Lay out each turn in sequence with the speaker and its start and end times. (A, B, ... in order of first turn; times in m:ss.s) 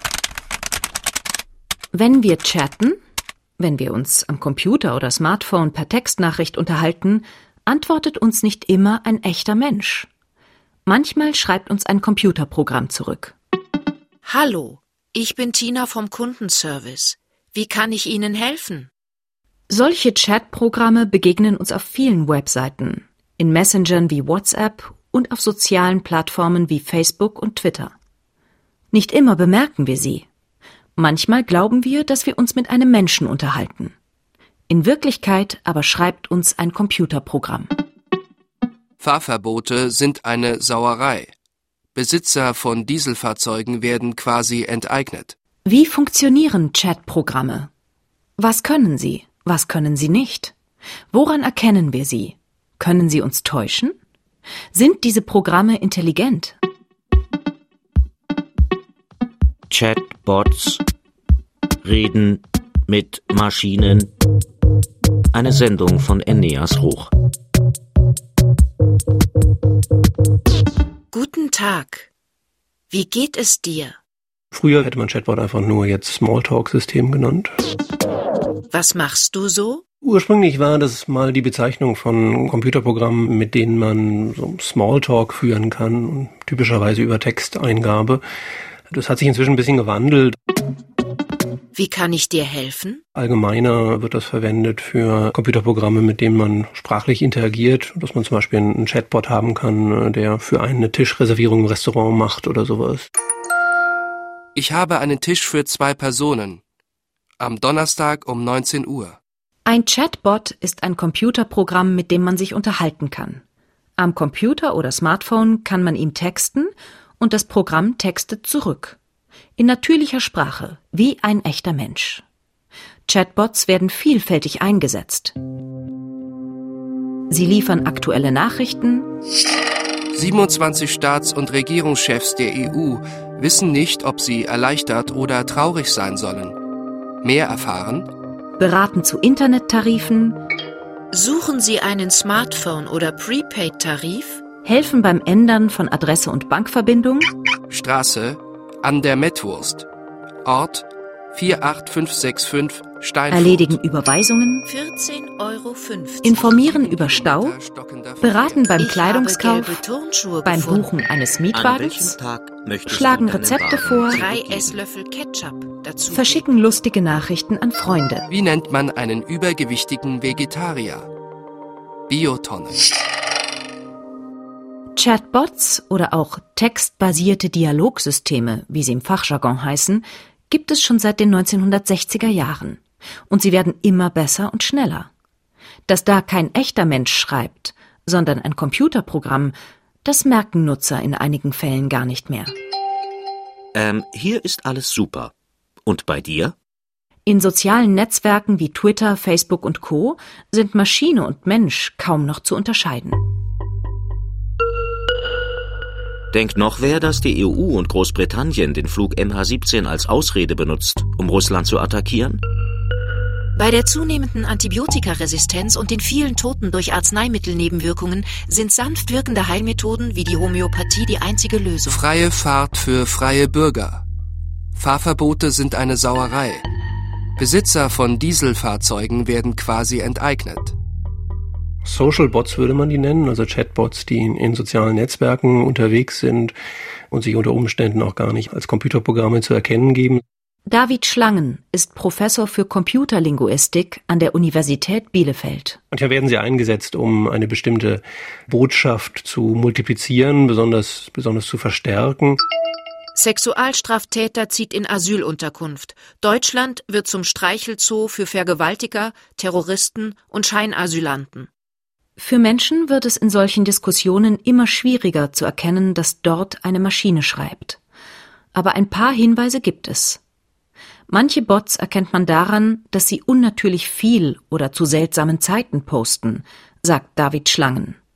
0:01.9-0:03.0 A
0:03.6-0:10.1 A
0:10.8-0:13.3 A
0:14.2-0:18.9 B
0:19.7-0:27.9 A
0:28.9-0:30.3 A
0:31.0-0:33.9 A
0:34.7-0:37.7 A
0:39.0-0:41.3 C
0:41.9-0:45.3 C
0:45.6-0:47.7 A
0:48.4-0:50.5 A
0:51.1-0:54.0 A
0:54.7-0:56.6 A
0:59.7-1:00.8 D
1:01.8-1:04.1 D
1:05.3-1:07.1 D
1:11.1-1:12.1 B
1:12.9-1:14.0 B
1:14.5-1:17.6 E
1:18.7-1:19.8 B
1:20.0-1:28.2 E
1:28.9-1:30.4 E
1:31.7-1:33.0 B
1:33.1-1:43.1 E
1:44.5-1:46.6 C
1:47.4-1:49.2 C
1:49.6-1:53.4 A
1:54.0-1:59.0 A
1:59.6-2:02.2 A
2:03.1-2:05.3 A
2:07.3-2:09.1 A
2:10.1-2:16.6 C
2:17.2-2:18.1 C
2:18.6-2:20.4 A
2:21.1-2:24.4 B
2:24.6-2:27.3 A
2:27.7-2:29.8 C
2:30.4-2:33.8 C
2:33.3-2:34.6 A
2:34.6-2:37.3 B
2:36.2-2:37.6 A
2:36.7-2:38.6 C
2:38.2-2:39.8 A
2:38.8-2:40.9 B
2:40.4-2:42.2 A
2:41.5-2:44.8 D
2:42.9-2:44.2 A
2:44.1-2:46.4 B
2:46.1-2:48.3 A
2:48.3-2:51.1 C
2:52.1-2:52.8 C
2:55.0-3:05.1 A
3:05.9-3:09.5 A
3:10.0-3:12.5 A
3:13.7-3:15.3 D
3:15.8-3:16.5 D
3:17.2-3:23.2 A
3:26.3-3:32.4 D
3:33.6-3:42.0 B
3:41.8-3:44.0 C
3:44.7-3:46.7 C
3:47.4-3:50.7 C
3:51.8-3:56.5 E
3:57.1-4:00.2 E
4:00.7-4:05.8 A
4:05.9-4:12.4 E
4:13.1-4:21.5 B
4:22.2-4:27.8 A
4:28.5-4:30.2 A
4:31.1-4:38.0 A